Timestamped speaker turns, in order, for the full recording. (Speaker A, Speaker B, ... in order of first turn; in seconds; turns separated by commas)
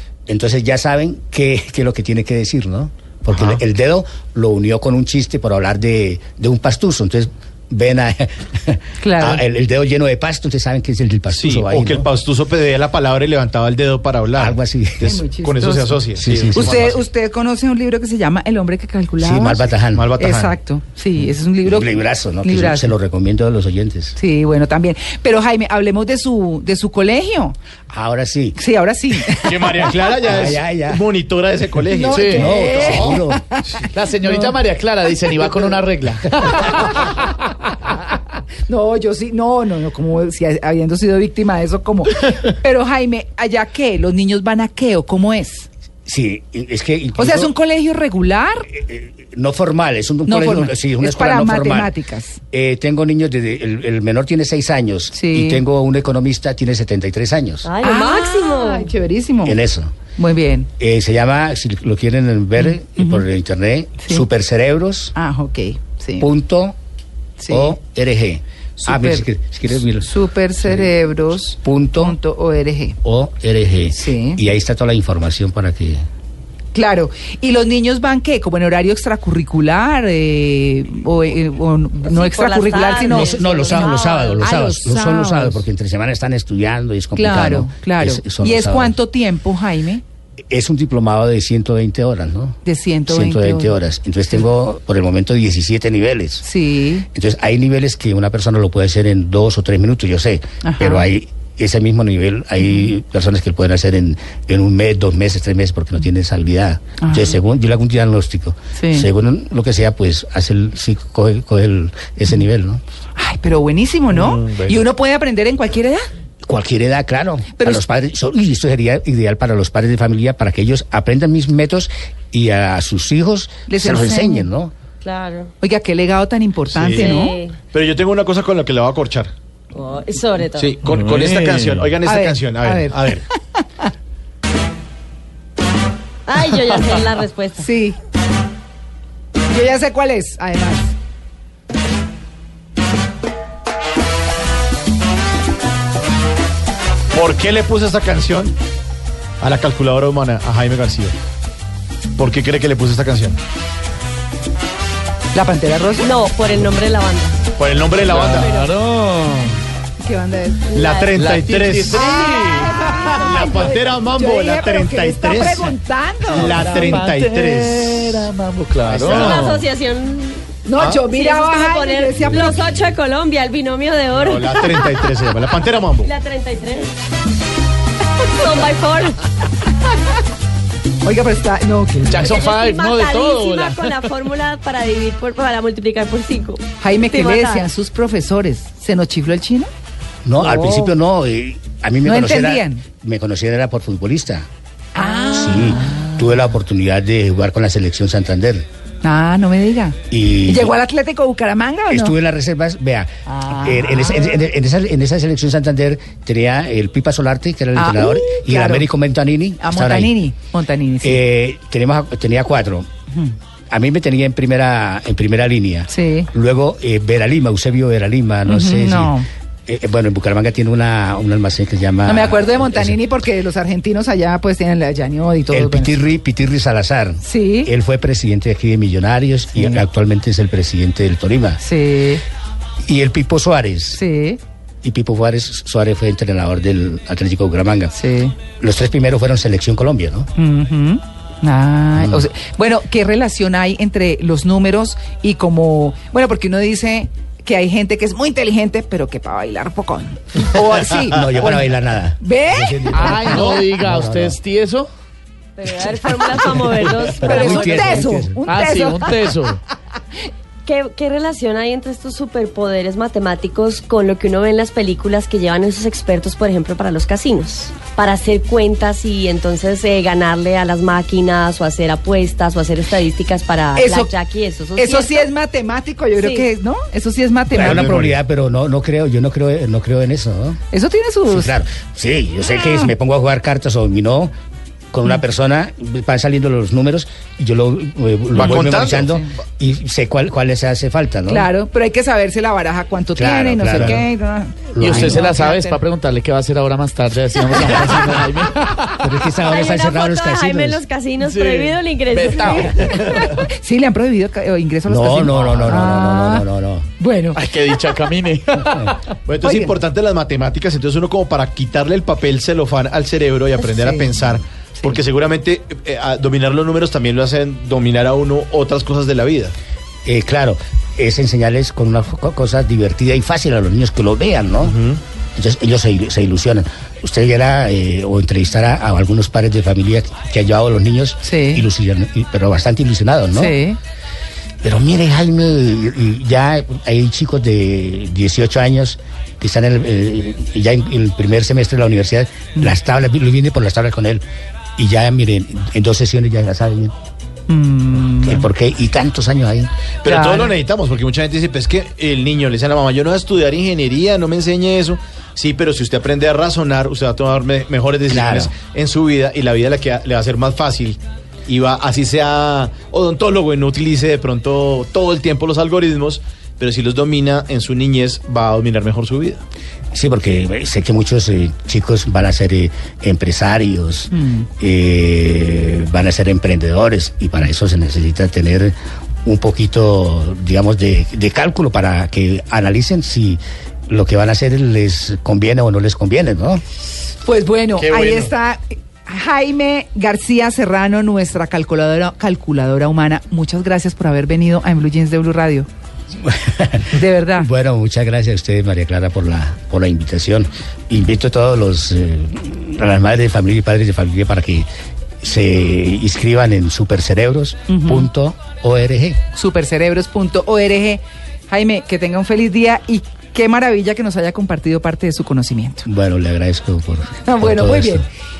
Speaker A: 0.3-12.1, Speaker B: 9.0-9.4, Speaker C: 11.3-17.0, Speaker A: 14.3-15.2, Speaker B: 15.0-19.7, Speaker A: 16.1-16.9, Speaker A: 19.2-20.1, Speaker C: 19.9-20.5, Speaker B: 20.2-22.9, Speaker A: 21.6-24.1, Speaker B: 24.1-27.6, Speaker A: 27.9-28.6, Speaker B: 28.6-30.1, Speaker C: 29.3-33.9, Speaker A: 30.2-31.0, Speaker B: 31.9-34.6, Speaker D: 32.1-32.5, Speaker A: 32.3-33.4, Speaker D: 33.9-37.0, Speaker B: 36.5-36.9, Speaker B: 38.7-45.7, Speaker A: 46.0-47.5, Speaker B: 47.2-48.7, Speaker A: 48.7-51.9, Speaker B: 50.3-52.4, Speaker A: 52.5-57.7, Speaker B: 55.1-55.6, Speaker E: 57.6-58.9, Speaker B: 57.8-59.6, Speaker A: 59.4-59.9, Speaker B: 60.1-60.7, Speaker A: 60.8-65.1, Speaker B: 62.6-63.2, Speaker B: 65.1-66.3, Speaker A: 66.2-66.8, Speaker B: 67.4-67.7, Speaker A: 67.5-70.1, Speaker B: 68.8-69.3, Speaker B: 69.9-73.0, Speaker A: 71.6-72.2, Speaker A: 73.0-76.0, Speaker B: 73.9-74.4, Speaker B: 76.7-85.6, Speaker E: 82.0-84.3, Speaker A: 83.0-88.9, Speaker B: 87.2-90.0, Speaker A: 90.5-96.4, Speaker B: 92.7-93.7, Speaker B: 96.4-97.0, Speaker A: 97.1-112.8, Speaker B: 100.6-101.0, Speaker B: 107.0-107.4, Speaker B: 108.8-109.1, Speaker B: 113.2-116.1, Speaker C: 114.1-114.8, Speaker A: 116.4-124.7, Speaker B: 117.6-117.8, Speaker B: 123.7-124.5, Speaker E: 125.0-125.5, Speaker B: 125.6-127.3, Speaker C: 126.7-129.3, Speaker E: 126.9-127.6, Speaker E: 129.7-130.8, Speaker C: 130.6-133.2, Speaker D: 130.9-131.9, Speaker B: 132.0-133.6, Speaker E: 136.3-137.7, Speaker B: 137.6-138.0, Speaker B: 139.5-140.9, Speaker C: 147.1-148.6, Speaker C: 149.4-151.2, Speaker C: 152.2-153.4, Speaker B: 155.3-156.2, Speaker E: 156.0-157.4, Speaker C: 157.6-158.5, Speaker B: 158.1-158.7, Speaker D: 158.1-159.6, Speaker B: 160.0-160.7, Speaker E: 160.7-161.2, Speaker C: 160.7-162.4, Speaker D: 161.1-163.4, Speaker B: 161.9-167.0, Speaker C: 163.2-165.7, Speaker C: 166.3-168.3, Speaker D: 166.4-169.6, Speaker C: 168.8-169.5, Speaker E: 169.0-174.9, Speaker B: 170.7-172.6, Speaker C: 174.2-176.1, Speaker E: 176.0-176.9, Speaker E: 178.3-179.2, Speaker B: 181.0-182.4, Speaker D: 182.1-184.0, Speaker E: 182.2-187.7, Speaker B: 186.8-189.7, Speaker A: 190.2-194.5, Speaker E: 190.4-190.8, Speaker B: 192.0-192.8, Speaker B: 194.9-196.1, Speaker A: 195.3-198.7, Speaker B: 199.0-202.1, Speaker A: 200.1-200.7, Speaker A: 201.9-210.2, Speaker B: 203.3-204.5, Speaker B: 207.8-208.9, Speaker B: 209.6-211.2, Speaker A: 211.0-212.9, Speaker A: 213.7-219.2, Speaker B: 215.9-216.3, Speaker B: 218.4-219.3, Speaker A: 219.7-222.9, Speaker B: 222.0-226.0, Speaker A: 225.5-231.6, Speaker B: 227.2-227.7, Speaker B: 229.6-229.8, Speaker B: 231.6-232.2, Speaker A: 232.8-234.0, Speaker B: 233.9-234.4, Speaker A: 234.8-237.9, Speaker B: 237.9-238.3, Speaker A: 238.6-240.3, Speaker B: 240.4-253.6, Speaker A: 241.9-242.2, Speaker A: 251.0-254.4, Speaker D: 252.9-254.9, Speaker E: 255.6-258.1, Speaker B: 256.9-259.5, Speaker A: 257.2-258.4, Speaker D: 258.5-259.6, Speaker E: 260.6-275.3, Speaker B: 273.8-274.1, Speaker B: 274.8-277.9, Speaker E: 276.2-276.4, Speaker A: 277.5-280.6, Speaker C: 277.6-278.1, Speaker B: 280.7-281.5, Speaker A: 281.3-284.3, Speaker B: 282.6-282.9, Speaker A: 284.9-291.5, Speaker C: 288.3-289.1, Speaker B: 291.3-295.8, Speaker A: 293.1-294.1, Speaker A: 294.7-295.3, Speaker D: 294.8-299.1, Speaker A: 299.0-300.8, Speaker E: 299.4-303.1, Speaker D: 301.2-303.4, Speaker B: 302.3-306.4, Speaker A: 304.9-306.9, Speaker D: 305.4-305.7, Speaker B: 307.0-308.0, Speaker D: 307.3-309.0, Speaker B: 308.5-309.7, Speaker C: 309.3-319.5, Speaker B: 313.6-314.1, Speaker A: 320.0-324.8, Speaker C: 324.7-325.0, Speaker A: 325.4-333.6, Speaker B: 331.2-331.6, Speaker B: 333.3-333.8, Speaker A: 334.6-344.2, Speaker A: 344.8-346.9, Speaker B: 347.5-348.5, Speaker A: 348.2-349.7, Speaker C: 350.0-369.4, Speaker B: 350.0-350.5, Speaker A: 358.1-358.5, Speaker A: 369.9-386.6, Speaker B: 374.1-374.5, Speaker B: 387.2-395.7, Speaker C: 387.8-388.3, Speaker A: 396.2-404.7, Speaker B: 396.9-397.5, Speaker A: 405.2-409.2, Speaker B: 407.7-408.1, Speaker B: 409.4-415.9, Speaker A: 415.8-418.0, Speaker B: 417.2-418.1